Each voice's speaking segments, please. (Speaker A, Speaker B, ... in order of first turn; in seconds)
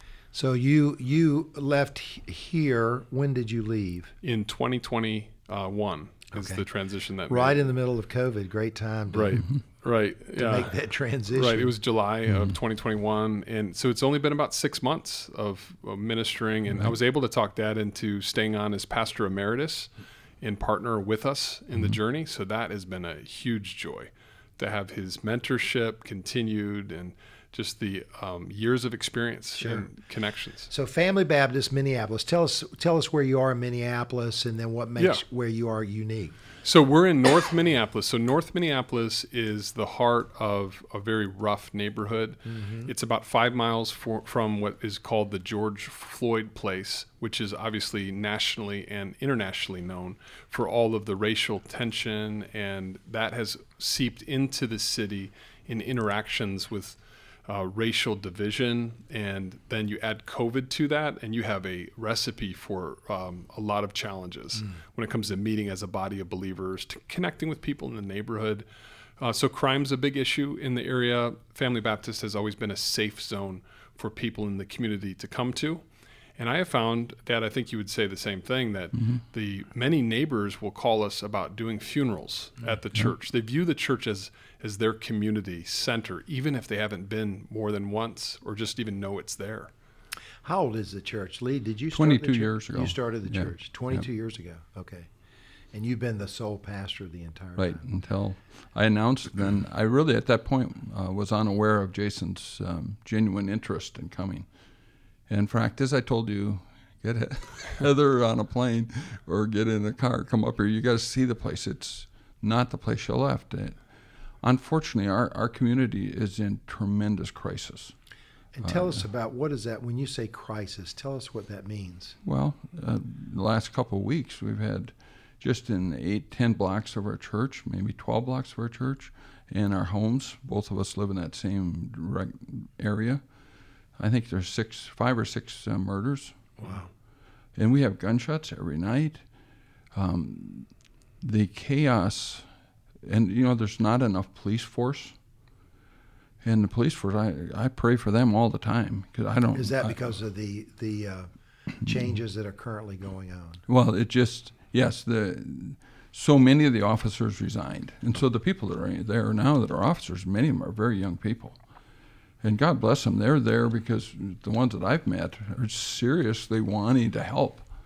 Speaker A: 0.3-4.1, 6.3-6.7, 7.3-9.4, 10.3-11.7, 29.6-29.9, 30.7-36.4, 42.5-42.9, 90.4-95.1, 95.7-97.8, 118.5-122.2, 149.5-151.3, 151.8-153.6
Speaker B: 4.2-7.7, 9.1-10.7, 11.3-30.7, 35.0-35.2, 36.6-68.6, 69.2-75.8, 76.4-89.7
Speaker C: 12.3-12.6, 16.7-16.9, 79.0-79.2, 91.9-94.1, 97.5-104.5, 105.3-113.8, 114.4-117.9, 118.6-119.0, 122.2-133.2, 134.0-136.6, 137.5-139.2, 139.9-140.7, 141.2-142.5, 143.0-145.2, 146.4-150.1, 153.7-161.6, 162.4-167.6